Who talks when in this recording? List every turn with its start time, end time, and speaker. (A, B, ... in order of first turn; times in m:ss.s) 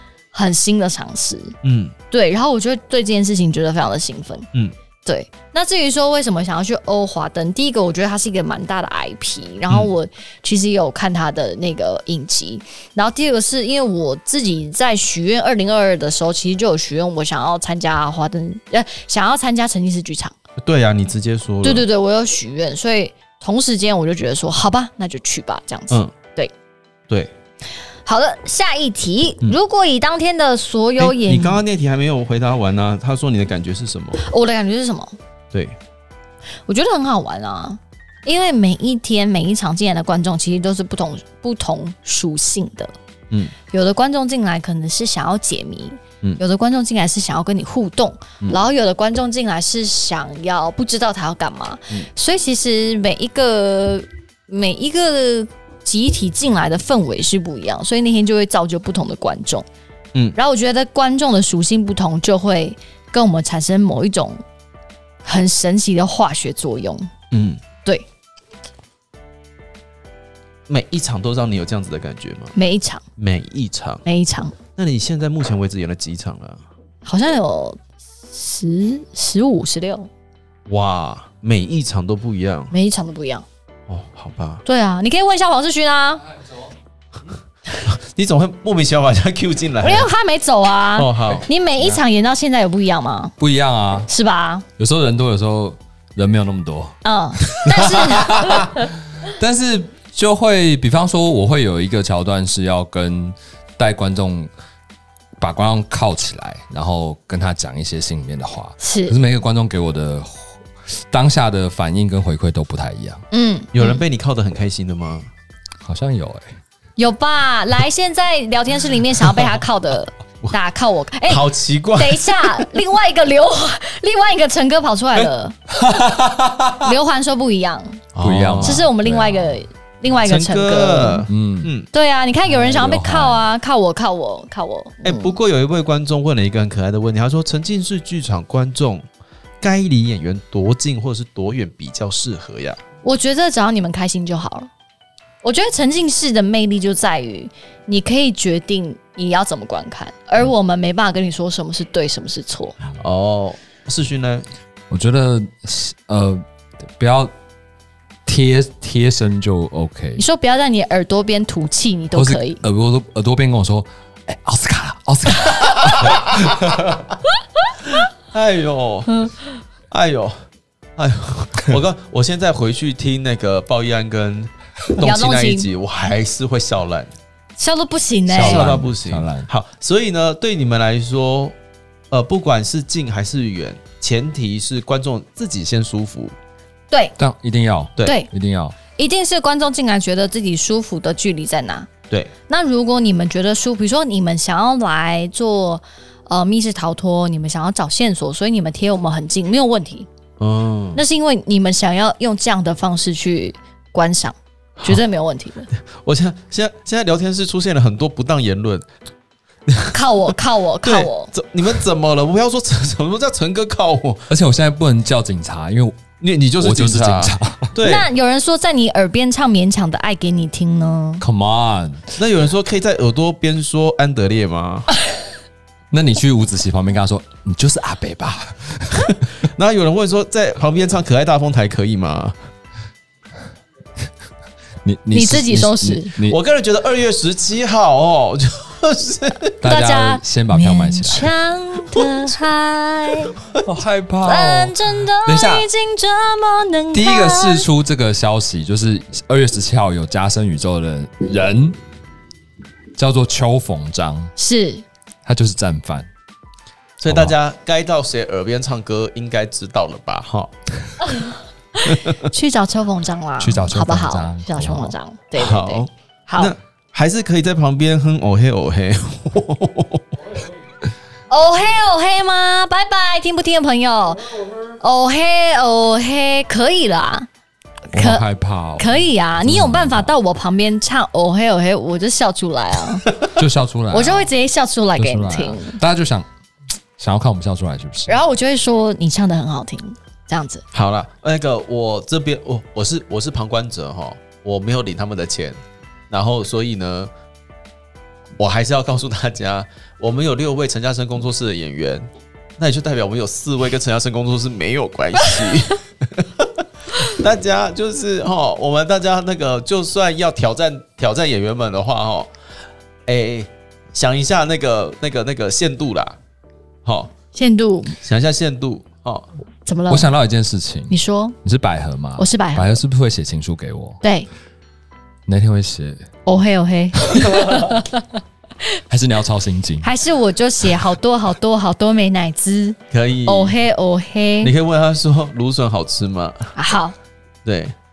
0:00.3-0:01.6 A
0:01.6-0:01.9 B
0:02.1-0:04.5 A
0:05.0-0:20.3 A
0:20.6-0:21.8 B
0:21.6-0:26.5 A
0:25.9-0:26.1 B
0:28.0-0:31.6 A
0:31.0-0:34.2 B
0:34.2-0:35.2 A
0:35.5-0:35.8 B
0:36.7-0:42.9 A
0:43.7-0:59.6 A
1:00.3-1:04.4 A
1:05.2-1:07.1 A
1:07.3-1:07.6 B
1:10.7-1:12.5 B
1:12.5-1:13.0 A
1:13.2-1:14.0 B
1:14.0-1:14.6 A
1:14.8-1:16.6 B
1:17.0-1:17.8 A
1:18.3-1:20.1 A
1:20.7-1:22.7 B
1:22.7-1:23.4 A
1:23.9-1:24.6 B
1:24.6-1:26.2 A
1:27.8-1:30.1 B
1:29.8-1:33.3 A
1:31.0-1:31.5 B
1:33.4-1:34.1 C
1:34.1-1:34.6 A
1:34.8-1:44.5 C
1:37.0-1:38.9 A
1:45.4-1:50.5 C
1:48.8-1:49.2 A
1:51.1-1:53.2 C
1:53.3-1:54.0 A
1:53.7-1:55.3 B
1:55.8-1:56.5 C
1:57.0-2:01.4 A
2:01.3-2:02.7 B
2:01.9-2:05.6 A
2:05.7-2:06.8 C
2:06.8-2:08.0 A
2:08.1-2:08.9 B
2:08.2-2:09.6 C
2:08.6-2:11.3 A
2:10.2-2:11.9 B
2:11.3-2:11.7 C
2:11.9-2:15.4 A
2:12.5-2:13.4 C
2:15.0-2:19.0 B
2:19.6-2:22.8 B
2:23.0-2:24.7 A
2:25.4-2:32.8 A
2:33.0-2:34.5 B
2:34.9-2:36.4 C
2:37.0-2:37.3 C
2:38.2-2:40.2 C
2:40.2-2:42.6 A
2:42.1-2:46.8 C
2:46.0-2:47.0 B
2:48.3-2:49.3 B
2:49.9-2:50.4 B
2:51.0-2:57.1 B
2:54.9-2:55.7 A
2:57.6-2:58.7 A
2:58.3-3:01.6 B
2:58.3-2:59.5 C
3:02.1-3:06.4 B
3:07.2-3:08.8 C
3:08.0-3:08.3 A
3:09.0-3:11.9 A
3:12.5-3:20.1 A
3:20.4-3:21.0 B
3:20.9-3:25.7 A
3:25.7-3:28.9 B
3:29.7-3:29.9 B
3:29.9-3:31.3 A
3:30.8-3:34.3 B
3:34.3-3:36.0 C
3:36.2-3:38.1 B
3:36.6-3:37.8 C
3:37.8-3:41.2 A
3:41.2-3:42.1 C
3:42.2-3:44.9 B
3:45.9-3:49.3 C
3:49.1-3:52.4 B
3:54.8-3:56.4 C
3:55.1-3:56.1 A
3:56.2-3:59.6 B
3:59.6-4:01.3 C
3:59.6-4:03.4 A
4:03.6-4:05.7 C
4:04.2-4:07.6 A
4:06.9-4:11.8 C
4:13.0-4:14.3 C
4:14.4-4:14.8 A
4:15.2-4:16.1 C
4:17.0-4:21.0 B
4:17.0-4:17.3 C
4:21.0-4:26.5 A
4:21.8-4:22.3 B
4:23.4-4:24.9 C
4:25.4-4:30.1 B
4:31.3-4:37.3 A
4:37.9-4:38.2 A
4:37.9-4:40.1 C
4:38.8-4:43.0 A
4:43.3-4:44.3 C
4:43.9-4:45.8 A
4:45.0-4:46.3 C
4:47.0-4:48.2 C
4:48.1-4:50.6 A
4:50.7-4:57.1 B
4:58.4-5:12.3 B
5:13.0-5:16.2 B
5:16.8-5:17.1 B
5:17.3-5:18.0 A
5:18.0-5:19.3 B
5:19.6-5:20.1 A
5:19.9-5:24.0 C
5:20.9-5:21.3 A
5:22.2-5:22.8 A
5:24.0-5:24.3 A
5:25.3-5:26.0 C
5:26.2-5:28.0 A
5:27.1-5:27.8 C
5:28.9-5:29.9 C
5:29.8-5:34.5 A
5:32.9-5:33.6 B
5:34.4-5:36.5 B
5:36.6-5:37.0 A
5:37.4-5:37.7 B